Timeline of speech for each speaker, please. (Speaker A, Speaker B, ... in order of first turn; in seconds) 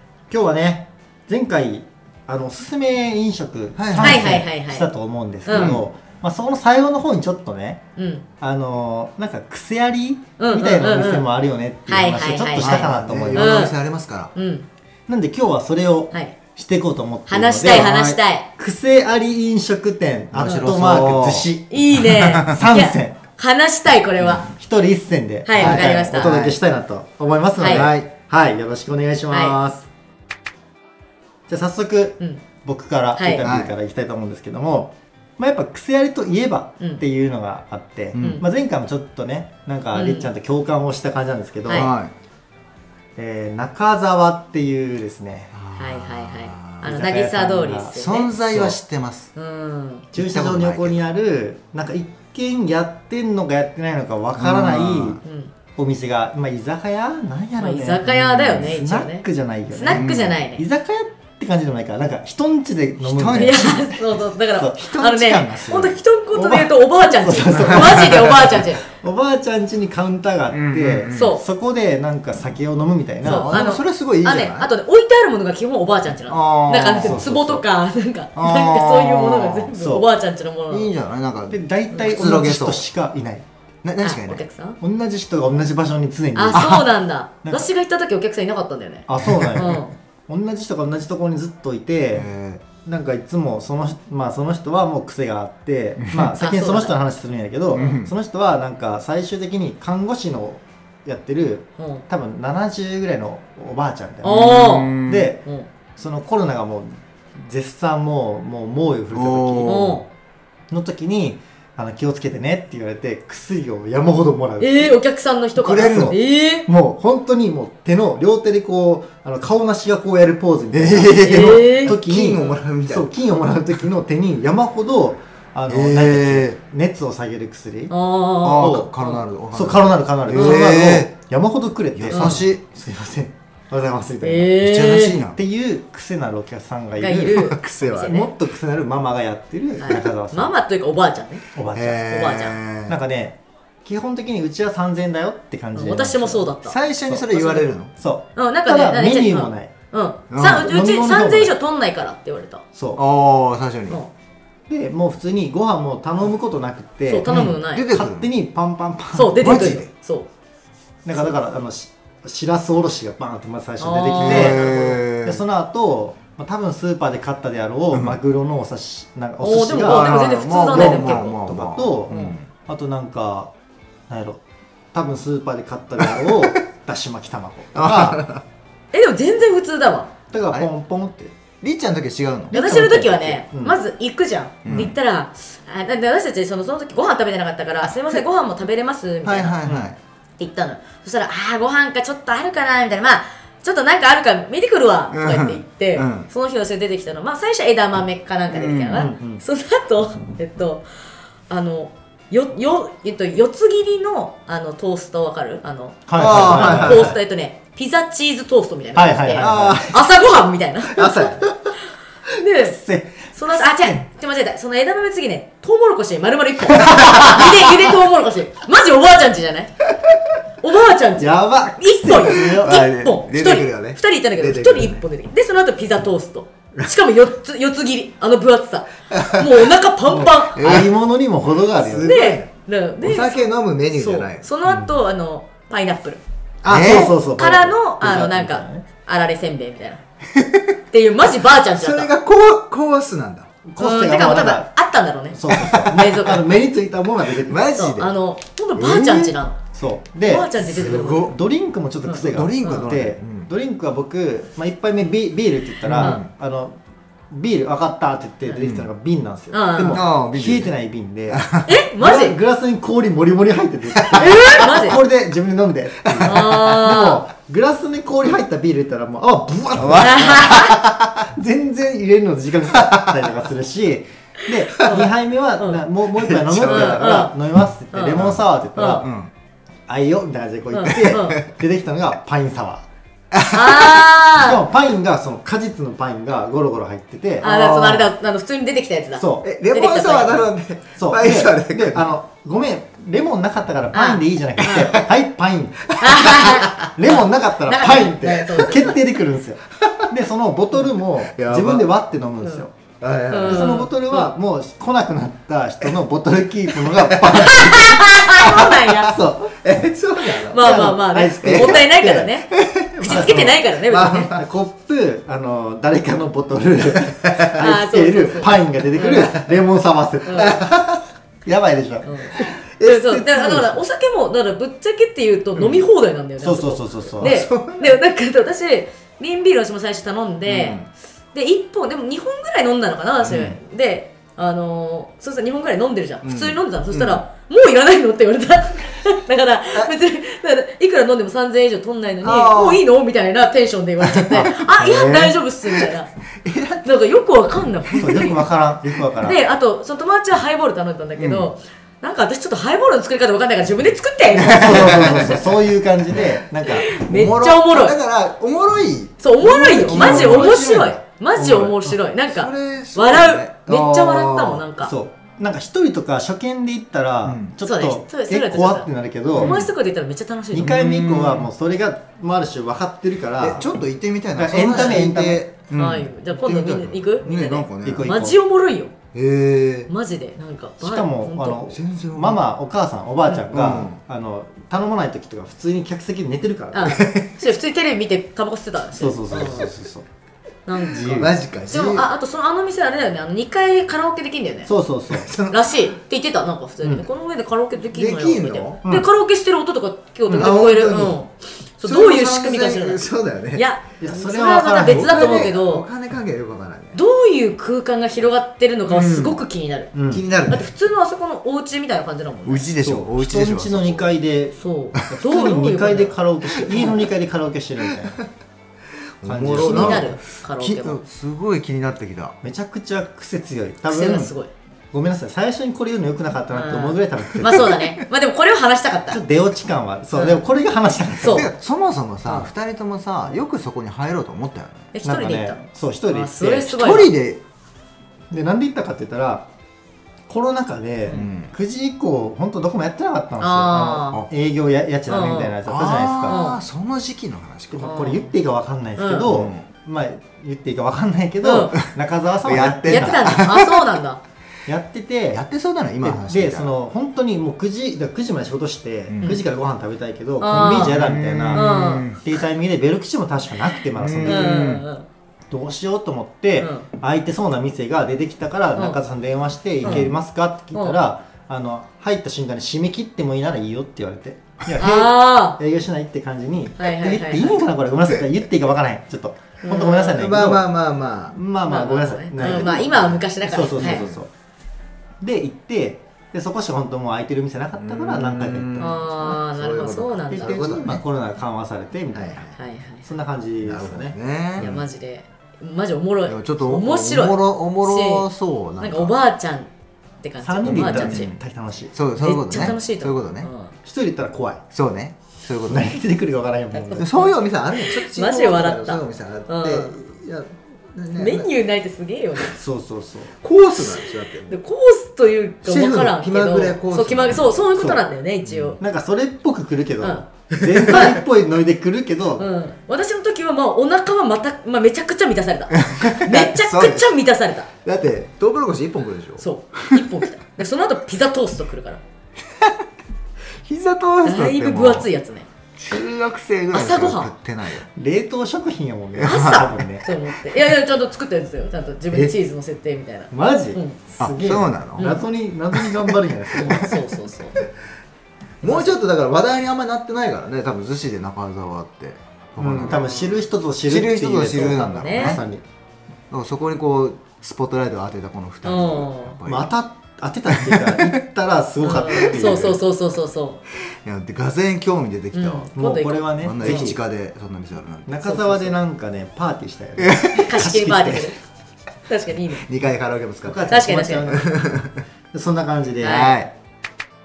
Speaker A: 0.3-7.8, 8.4-13.7, 15.1-21.7, 22.4-23.2, 24.4-29.9, 31.5-41.9, 43.2-45.5, 46.8-48.8, 50.1-55.2, 55.8-64.0, 64.5-64.8, 66.3-73.6, 77.0-77.6, 79.7-80.0, 81.5-83.4, 84.8-86.8, 89.1-105.4, 106.0-109.8, 110.7-115.0, 115.8-127.9, 128.5-128.9, 129.5-134.6, 135.3-140.5, 141.5-142.0, 142.9-146.5, 147.1-149.7, 150.4-151.5, 152.7-153.0, 154.7-159.8, 161.0-173.5, 174.1-174.4, 174.9-178.2, 180.3-181.3, 183.5-183.8, 184.6-184.9, 189.6-189.9, 198.9-199.4, 206.1-207.2, 208.9-209.9, 211.0-211.3, 212.5-214.1, 216.8-217.6, 221.2-222.8, 230.1-232.2, 234.6-234.9, 236.7-238.8, 243.7-244.7, 245.3-247.7, 249.7-256.8, 257.3-261.4, 262.0-279.1, 279.9-282.8, 284.4-287.5, 289.2-289.5, 290.9-302.8, 303.4-309.6, 310.4-312.3, 313.0-320.7, 321.4-322.1, 326.4-327.3, 333.2-333.6, 344.8-345.4, 348.0-349.4, 354.5-356.9, 359.8-360.6, 361.4-361.9, 364.8-369.6, 370.5-373.7, 374.4-375.4, 377.8-378.4, 380.8-387.0, 388.9-390.1, 390.8-391.3, 394.7-395.3, 396.8-397.1, 400.3-400.5, 404.0-405.5, 409.9-410.2, 412.8-414.6, 415.1-418.2, 419.2-420.1, 422.4-424.3, 424.9-427.7, 429.1-431.5, 435.0-436.7, 438.3-439.4, 440.3-446.5, 447.7-453.3, 454.6-455.4, 456.0-464.6, 465.5-480.6, 481.3-484.3, 485.2-489.0, 490.3-492.5, 493.0-494.8, 500.4-501.9, 503.8-504.6, 505.6-507.1, 512.5-513.3, 518.8-522.5, 538.0-540.1, 543.3-546.9, 552.6-555.6, 559.5-562.8, 565.7-567.0, 568.0-571.3, 573.4-574.6, 575.3-576.3
Speaker B: 3.8-4.2, 5.5-5.8, 12.6-14.3, 20.3-22.6, 25.6-26.6, 27.7-28.1, 33.4-33.7, 38.1-38.4, 41.7-42.1, 45.5-46.9, 47.9-49.3, 50.1-51.0, 54.4-55.2, 58.0-58.7, 59.9-60.4, 63.0-63.8, 64.8-66.0, 70.5-71.3, 73.2-74.7, 76.3-77.5, 78.3-79.7, 80.7-82.8, 83.8-84.4, 86.5-86.9, 89.2-89.8, 92.1-92.6, 97.7-98.1, 104.2-105.3, 109.1-110.0, 115.6-116.2, 120.7-123.1, 125.7-126.6, 128.4-131.1, 131.9-132.6, 134.6-135.4, 137.3-138.2, 141.7-143.0, 146.6-147.9, 150.3-150.7, 152.9-154.0, 157.2-158.3, 159.4-159.9, 164.2-165.4, 167.9-168.2, 169.8-172.5, 176.0-176.6, 177.7-178.4, 181.6-183.4, 184.6-184.9, 189.2-190.0, 195.1-196.3, 198.5-199.1, 206.2-207.1, 209.4-210.0, 211.0-211.3, 222.4-225.0, 229.2-229.5, 230.6-230.9, 231.8-232.5, 233.0-234.5, 236.6-237.2, 240.4-240.7, 241.8-243.5, 245.6-245.9, 247.4-248.1, 248.8-249.3, 250.6-251.3, 252.1-253.5, 255.8-256.3, 258.6-258.9, 259.9-260.7, 261.3-261.7, 266.0-266.8, 269.8-270.4, 272.8-273.1, 276.2-277.3, 279.0-279.3, 283.3-284.1, 287.4-288.1, 289.4-292.1, 294.7-295.0, 296.0-296.8, 301.2-301.9, 303.0-303.9, 306.8-307.4, 309.6-311.9, 312.5-314.4, 320.4-321.0, 322.4-323.8, 327.2-328.0, 330.4-330.9, 336.2-337.2, 342.2-342.8, 344.0-344.5, 346.4-346.9, 347.8-348.4, 351.2-351.5, 354.4-355.4, 356.8-361.0, 361.9-364.6, 367.2-367.5, 369.4-369.7, 370.5-371.5, 373.4-378.1, 379.1-379.9, 381.7-382.4, 383.5-384.0, 386.9-387.3, 391.1-392.1, 395.1-395.6, 397.9-398.8, 400.4-401.2, 401.8-403.6, 404.8-407.0, 408.9-409.4, 410.1-410.7, 412.4-414.1, 416.6-417.1, 417.9-418.2, 419.2-422.4, 427.5-427.8, 431.2-434.9, 436.6-437.4, 441.1-441.5, 445.6-448.0, 449.3-449.6, 452.4-453.8, 455.3-456.7, 459.1-459.4, 460.6-462.2, 463.9-464.9, 469.8-470.1, 480.2-481.4, 482.4-483.2, 483.8-484.2, 487.8-491.0, 492.1-492.5, 493.6-494.8, 496.3-499.1, 500.6-501.3, 501.9-503.5, 504.7-505.9, 507.0-511.5, 513.4-514.6, 515.6-517.6, 518.5-518.8, 520.6-521.1, 525.8-527.2, 527.8-530.0, 533.6-535.1, 535.8-537.9, 539.1-539.8, 544.2-545.2, 545.7-546.9, 548.6-553.0, 553.9-555.4, 556.3-559.7, 560.5-561.1, 564.0-565.7, 566.4-568.1, 570.0-570.6, 572.6-575.0, 576.0-576.5
Speaker C: 3.9-4.9, 5.5-5.8, 8.0-8.2, 10.4-11.3, 11.9-13.7, 14.3-14.7, 17.3-18.5, 21.7-24.5, 25.5-26.3, 27.6-27.9, 29.3-29.6, 32.2-32.4, 33.1-33.4, 38.2-38.4, 39.9-40.3, 45.8-48.3, 49.3-50.1, 55.2-55.5, 57.6-60.6, 63.3-68.8, 71.1-71.4, 73.2-80.9, 84.0-84.8, 86.3-89.9, 96.3-96.9, 101.8-102.0, 104.2-105.7, 109.6-110.1, 114.6-116.7, 121.2-121.9, 127.9-129.2, 130.3-130.7, 132.1-132.4, 134.2-135.2, 137.0-138.3, 139.8-141.4, 142.1-142.6, 145.7-146.8, 148.3-152.6, 157.1-157.9, 159.1-160.3, 163.8-165.0, 169.4-171.4, 172.1-172.3, 178.9-180.1, 182.5-189.6, 190.4-200.8, 201.5-211.5, 212.4-212.8, 213.3-219.7, 220.6-230.8, 231.9-236.2, 237.2-240.0, 240.9-242.1, 243.8-246.6, 247.7-249.6, 250.2-251.3, 252.0-252.9, 256.0-256.2, 259.5-260.0, 261.6-262.4, 264.1-265.0, 266.2-267.2, 270.0-270.7, 274.8-275.8, 276.6-277.3, 277.9-279.0, 280.7-281.4, 283.4-284.6, 287.4-290.5, 293.9-294.9, 296.0-299.0, 303.3-304.3, 307.4-309.1, 310.5-314.3, 317.6-319.4, 320.2-320.6, 322.0-330.8, 331.3-346.1, 346.8-348.4, 349.2-355.4, 356.6-358.0, 359.2-364.9, 367.6-370.7, 374.7-375.0, 375.7-378.9, 379.9-381.6, 386.7-389.7, 390.7-394.7, 395.5-405.9, 406.9-409.9, 410.5-412.7, 414.6-416.1, 419.6-421.0, 423.9-424.5, 426.5-429.2, 431.2-431.5, 434.9-437.1, 443.4-444.2, 445.1-445.6, 446.3-446.6, 447.8-448.3, 449.0-449.3, 451.4-451.8, 452.9-454.2, 460.4-461.0, 461.5-462.1, 464.2-465.1, 466.6-466.9, 469.8-470.1, 474.8-475.6, 476.8-477.6, 479.6-480.2, 481.6-484.1, 488.8-490.6, 492.5-493.1, 494.6-498.3, 498.8-499.7, 500.2-501.3, 502.2-503.7, 506.7-510.0, 511.1-512.6, 513.8-518.8, 520.9-521.2, 522.4-527.7, 529.4-532.0, 534.2-535.5, 536.7-537.3, 539.2-544.0, 545.0-545.2, 546.5-547.6, 548.6-548.9, 552.9-553.4, 554.5-555.4, 558.6-559.4, 561.8-563.6, 565.3-566.9, 568.2-568.8, 570.4-571.4, 572.1-572.6, 573.7-574.4, 576.0-576.4